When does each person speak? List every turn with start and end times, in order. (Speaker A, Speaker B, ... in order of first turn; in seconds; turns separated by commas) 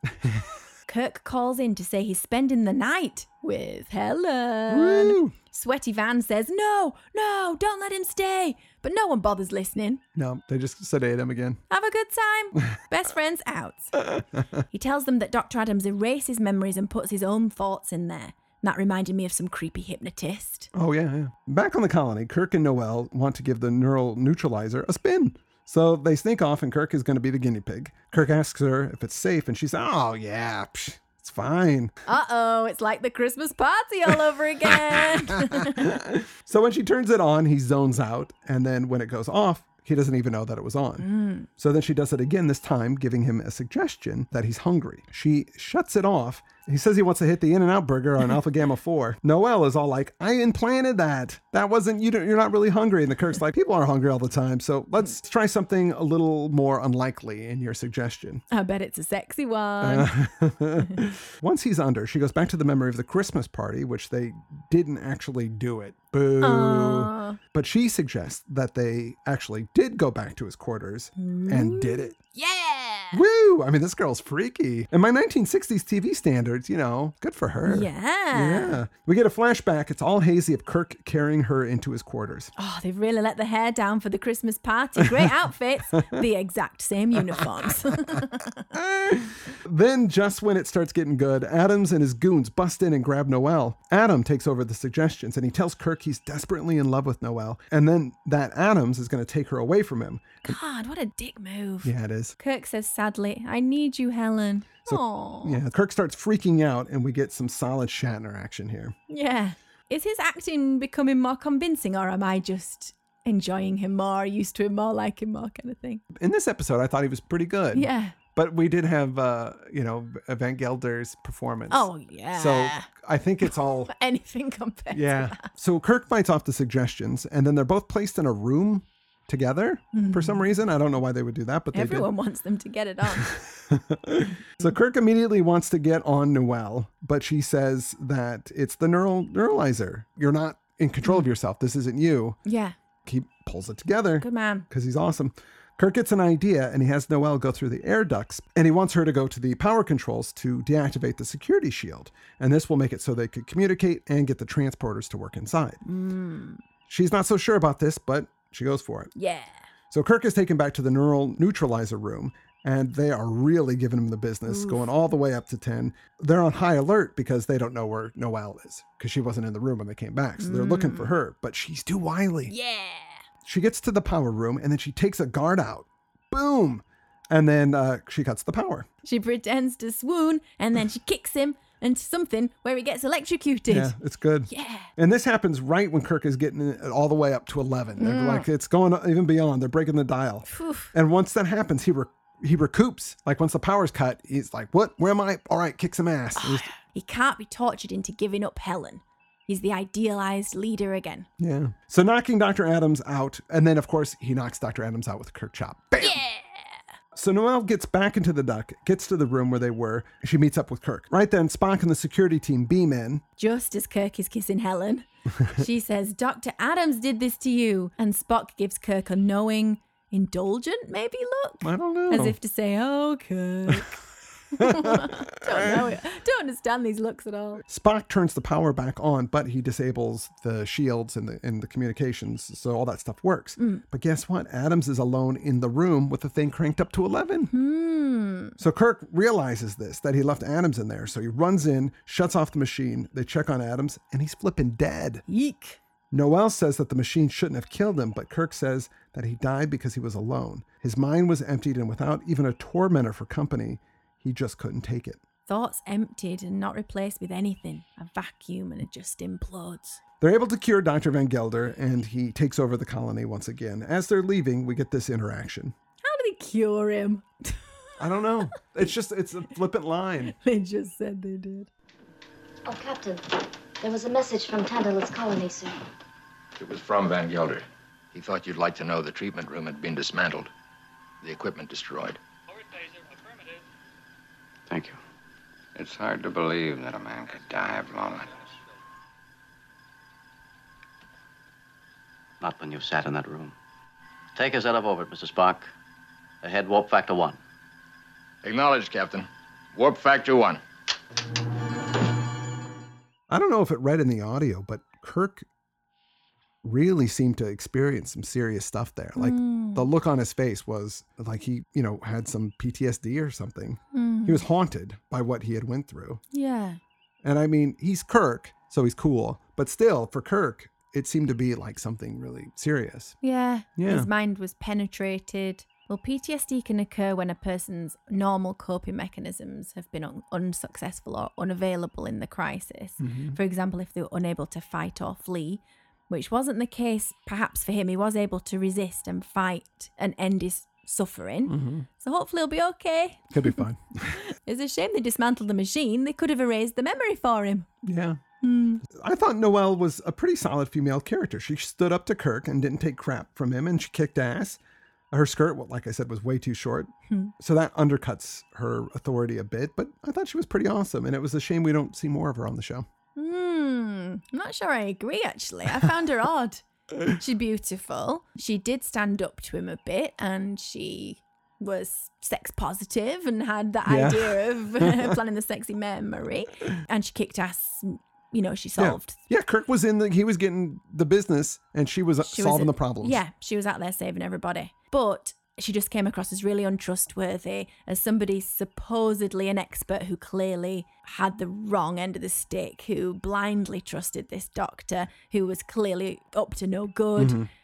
Speaker A: 0.9-10.0, Speaker B: 4.7-5.3, Speaker B: 10.1-11.6, Speaker A: 11.7-14.1, Speaker A: 14.7-20.7, Speaker B: 20.7-31.9, Speaker A: 32.1-35.8, Speaker B: 34.9-58.4, Speaker A: 41.0-41.5, Speaker A: 58.5-60.1, Speaker B: 59.8-72.1, Speaker A: 66.4-67.4, Speaker A: 71.2-73.2, Speaker B: 73.1-82.5, Speaker A: 77.7-78.8, Speaker A: 82.6-88.6, Speaker B: 88.7-100.5, Speaker A: 100.4-105.6, Speaker B: 101.8-102.3, Speaker B: 104.8-108.9, Speaker A: 109.1-116.0, Speaker B: 116.1-123.9, Speaker A: 117.7-118.1, Speaker A: 121.7-122.9, Speaker A: 123.5-125.5, Speaker B: 124.9-132.1, Speaker A: 129.9-130.4, Speaker A: 131.7-133.4, Speaker B: 133.3-142.4, Speaker A: 142.4-142.8, Speaker B: 143.1-155.8, Speaker A: 144.2-144.7, Speaker A: 155.8-156.6, Speaker B: 156.9-159.1, Speaker A: 159.1-159.6, Speaker B: 159.9-172.5, Speaker A: 164.5-164.9, Speaker A: 170.4-171.1, Speaker A: 172.5-173.2, Speaker B: 173.4-178.9, Speaker A: 179.0-183.9, Speaker B: 183.7-196.7, Speaker A: 184.5-184.9, Speaker A: 188.0-188.5, Speaker A: 190.5-190.9, Speaker A: 196.3-201.3, Speaker B: 201.4-206.2, Speaker A: 206.0-206.8, Speaker B: 207.1-213.2, Speaker A: 213.4-224.0, Speaker B: 221.6-222.3, Speaker A: 224.5-227.6, Speaker B: 224.6-225.7, Speaker B: 227.7-237.5, Speaker A: 233.6-233.8, Speaker A: 237.5-238.6, Speaker B: 238.6-245.2, Speaker A: 245.3-245.8, Speaker B: 246.1-255.2, Speaker A: 255.5-260.0, Speaker B: 260.2-265.7, Speaker A: 266.0-267.7, Speaker B: 268.0-270.3, Speaker A: 270.4-271.7, Speaker C: 272.6-275.8, Speaker D: 276.6-280.5, Speaker D: 281.2-282.2, Speaker E: 284.7-285.0, Speaker F: 285.7-288.4, Speaker E: 292.4-293.5, Speaker E: 294.3-295.7, Speaker E: 296.4-297.4, Speaker D: 298.4-300.6, Speaker B: 303.3-305.4, Speaker B: 306.6-316.2, Speaker A: 309.1-309.9, Speaker A: 313.9-314.4, Speaker A: 316.3-316.8, Speaker B: 317.2-323.1, Speaker A: 323.2-343.6, Speaker B: 323.8-324.1, Speaker B: 333.0-333.4, Speaker B: 341.5-341.9, Speaker B: 343.3-344.2, Speaker A: 344.1-347.7, Speaker B: 347.8-348.2, Speaker A: 348.4-348.8, Speaker B: 348.9-354.6, Speaker B: 355.1-362.9, Speaker A: 363.1-379.2, Speaker B: 373.9-375.1, Speaker B: 378.8-383.2, Speaker A: 382.2-397.4, Speaker B: 397.2-397.5